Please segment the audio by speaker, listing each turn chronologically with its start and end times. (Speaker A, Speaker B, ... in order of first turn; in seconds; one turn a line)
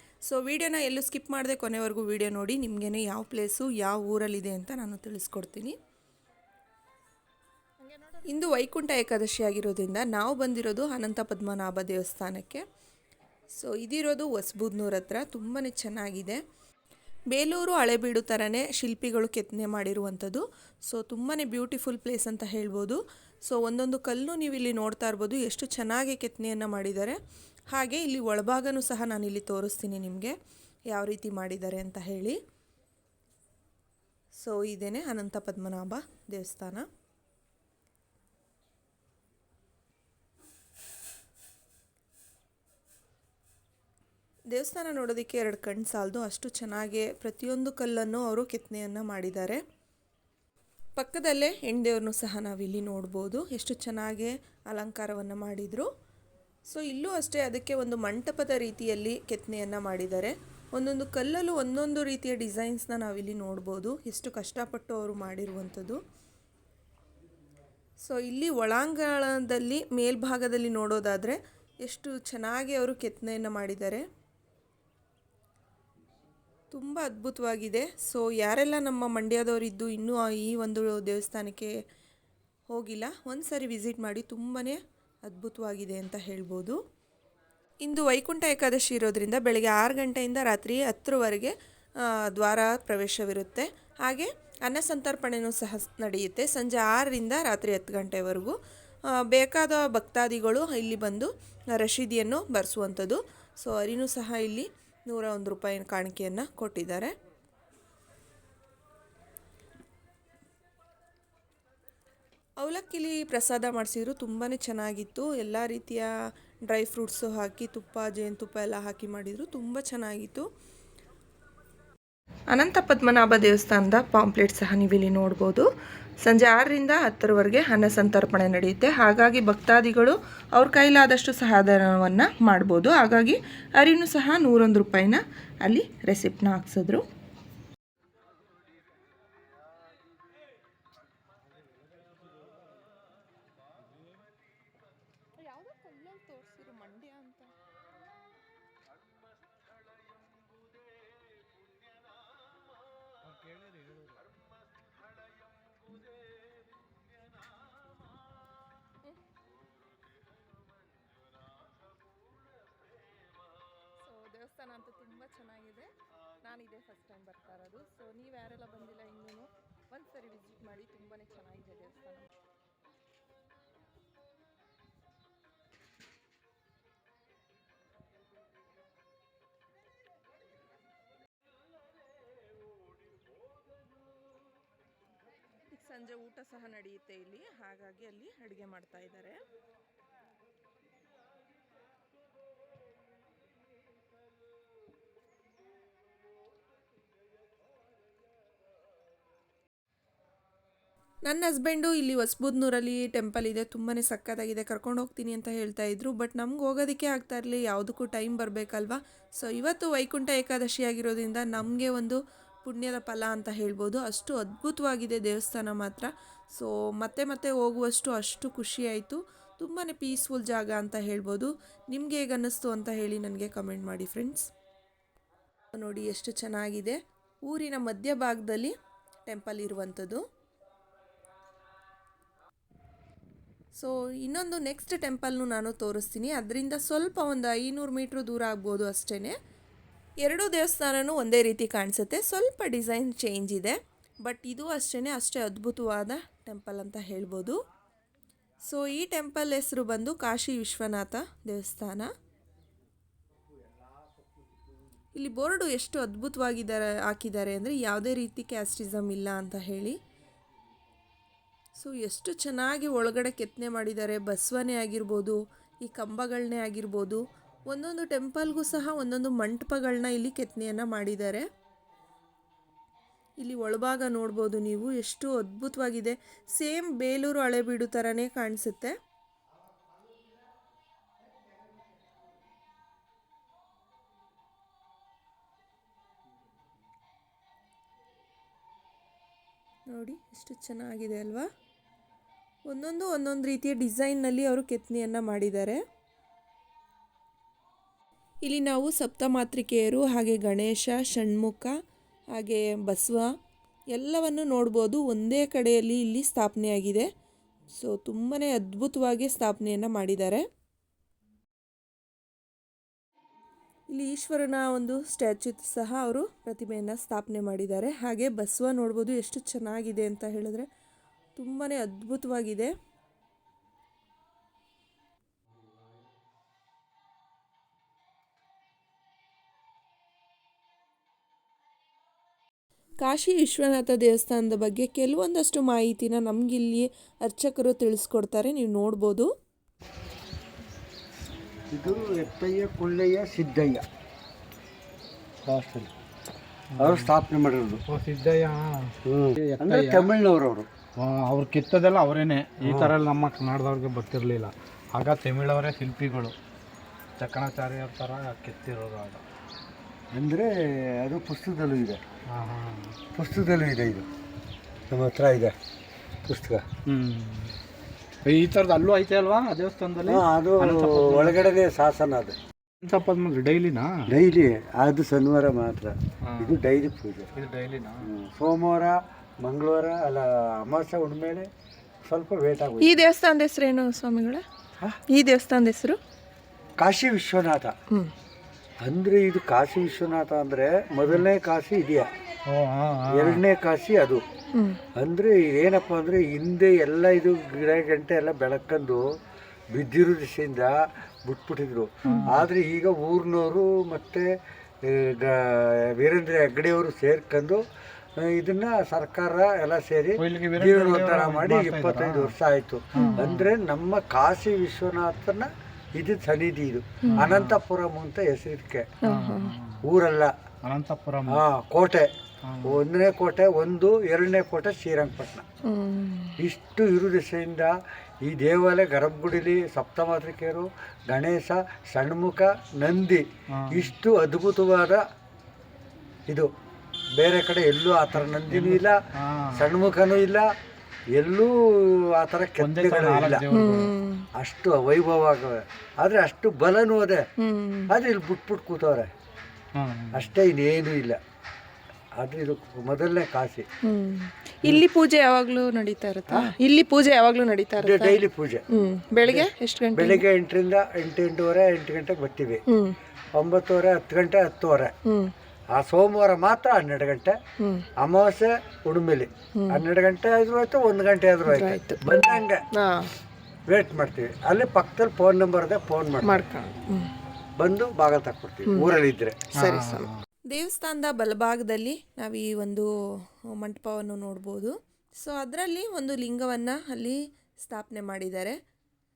Speaker A: 0.2-5.8
Speaker A: 7.9-12.6
Speaker A: 13.5-16.4
Speaker A: 17.3-27.2
Speaker A: 27.7-30.3
Speaker A: 30.9-32.4
Speaker A: 34.4-36.8
Speaker A: 44.5-49.6
Speaker A: 51.0-55.9
Speaker A: 56.7-66.0
Speaker A: 68.0-74.0
Speaker A: 76.7-81.7
Speaker A: 82.7-86.8
Speaker A: 87.8-98.5
Speaker A: 99.1-107.1
Speaker A: 112.6-116.1
Speaker A: 116.6-120.5
Speaker A: 122.5-125.7
Speaker A: 126.2-137.0
Speaker A: 145.4-147.5
Speaker A: 164.0-172.3
Speaker A: 185.7-189.4
Speaker A: 201.2-224.5
Speaker A: 225.7-228.7
Speaker A: 229.2-230.2
Speaker A: 233.8-239.3
Speaker A: 240.2-247.6
Speaker A: 248.7-252.1
Speaker A: 255.2-260.0
Speaker A: 261.8-271.4
Speaker A: 273.4-278.9
Speaker A: 289.9-291.5
Speaker A: 292.7-295.8
Speaker A: 298.4-301.7
Speaker A: 302.3-303.3
Speaker A: 303.9-307.1
Speaker A: 307.8-310.4
Speaker A: 313.9-320.7
Speaker A: 321.4-322.7
Speaker A: 333.0-339.3
Speaker B: 341.7-343.8
Speaker B: 345.4-345.9
Speaker C: 346.7-347.1
Speaker B: 346.8-347.8
Speaker C: 347.9-350.1
Speaker B: 349.0-350.7
Speaker C: 350.9-356.3
Speaker B: 352.6-352.9
Speaker C: 357.2-359.2
Speaker B: 360.1-362.0
Speaker C: 362.3-363.0
Speaker B: 363.1-364.1
Speaker B: 364.9-365.5
Speaker B: 366.2-366.6
Speaker C: 366.9-367.6
Speaker C: 368.2-371.4
Speaker B: 370.0-372.4
Speaker C: 372.8-374.1
Speaker B: 374.1-377.3
Speaker C: 376.2-376.6
Speaker C: 377.3-378.1
Speaker B: 378.0-381.5
Speaker B: 382.1-382.9
Speaker A: 382.8-384.4
Speaker A: 385.1-386.0
Speaker B: 386.8-387.7
Speaker B: 388.8-392.1
Speaker C: 392.5-393.4
Speaker B: 393.1-394.2
Speaker A: 394.5-394.8
Speaker B: 394.9-399.1
Speaker B: 399.7-404.3
Speaker C: 402.0-402.4
Speaker B: 404.8-407.6
Speaker B: 408.2-418.9
Speaker C: 410.2-412.3
Speaker C: 412.9-413.5
Speaker A: 413.0-413.2
Speaker A: 417.0-417.3
Speaker C: 417.1-417.6
Speaker A: 419.0-419.5
Speaker C: 419.0-419.8
Speaker B: 419.8-420.3
Speaker C: 420.6-421.4
Speaker B: 421.3-422.1
Speaker C: 422.4-422.8
Speaker B: 422.6-425.4
Speaker A: 425.6-426.4
Speaker B: 426.4-427.7
Speaker B: 428.2-435.0
Speaker C: 433.5-433.9
Speaker B: 437.2-439.0
Speaker C: 438.4-439.7
Speaker B: 439.5-440.4
Speaker B: 441.1-443.4
Speaker C: 442.6-443.9
Speaker A: 443.5-444.3
Speaker B: 444.4-447.2
Speaker A: 447.4-447.9
Speaker B: 447.9-449.1
Speaker C: 449.7-450.3
Speaker B: 450.1-451.2
Speaker B: 452.1-453.6
Speaker A: 453.8-460.2
Speaker B: 456.3-456.5
Speaker B: 457.8-458.6
Speaker B: 459.2-462.6
Speaker A: 462.7-463.0
Speaker B: 463.3-464.9
Speaker A: 465.0-465.3
Speaker B: 465.7-467.4
Speaker A: 467.6-467.9
Speaker B: 468.0-472.6
Speaker A: 469.5-469.8
Speaker A: 471.5-473.1
Speaker B: 473.7-476.3
Speaker A: 476.2-477.1
Speaker B: 477.6-479.5
Speaker A: 478.7-478.9
Speaker A: 479.5-488.6
Speaker C: 479.6-480.2